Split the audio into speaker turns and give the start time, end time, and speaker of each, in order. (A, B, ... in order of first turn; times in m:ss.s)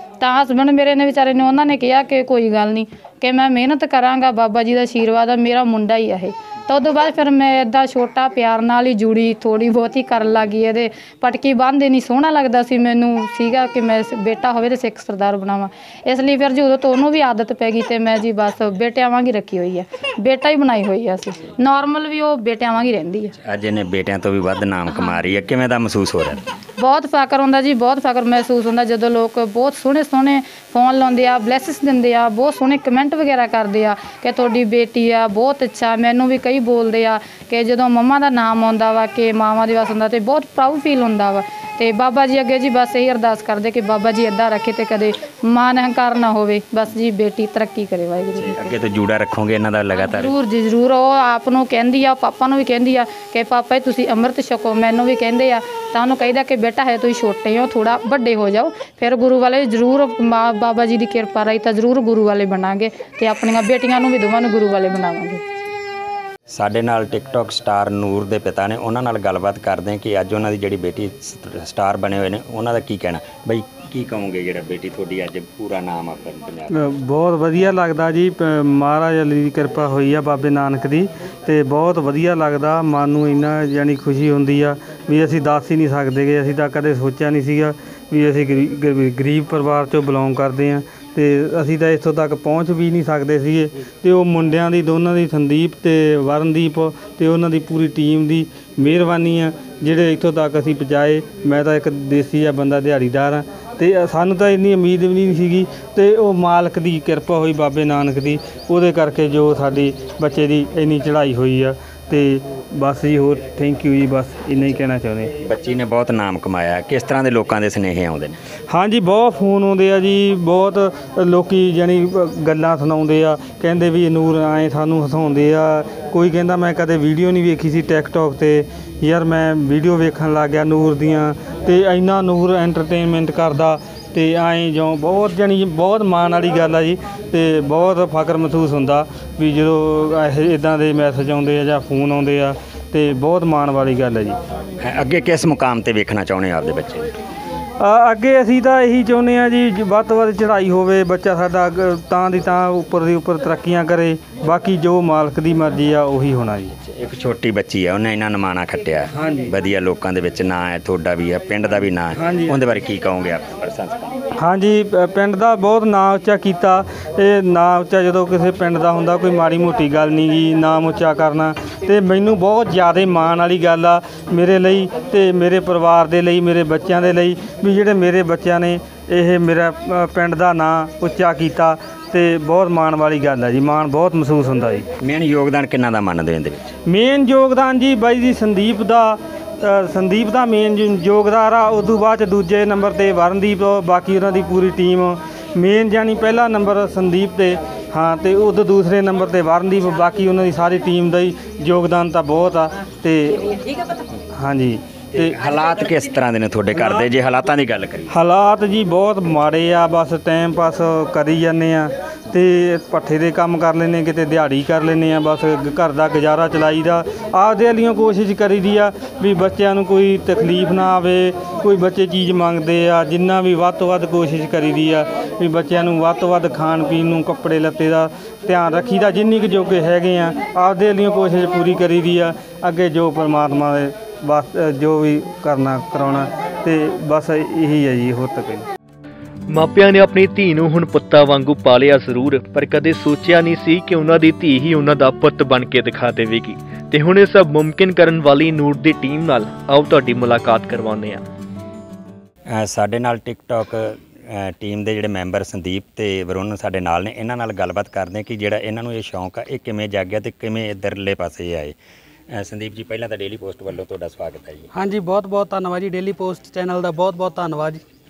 0:00.2-0:23.3 A
0:23.4-0:26.5 B
0:24.9-0:25.2 A
0:26.8-0:48.7 A
0:48.4-0:50.3 B
0:49.9-1:05.4 A
1:06.5-1:16.7 B
1:16.7-1:55.3 C
1:55.4-1:58.4 B
1:58.7-2:24.4 C
2:24.8-2:27.1 B
2:27.8-2:36.7 C
2:36.7-2:44.1 B
2:39.1-2:39.5 C
2:42.1-2:42.6 C
2:44.4-3:04.8 C
3:05.0-3:06.7 B
3:06.9-3:23.5 C
3:24.3-3:25.4 C
3:25.1-3:28.1 B
3:26.7-3:27.0 C
3:28.1-3:58.6 C
3:59.5-4:11.2 D
4:12.5-4:21.8 B
4:22.3-4:24.7 B
4:24.7-4:27.8 E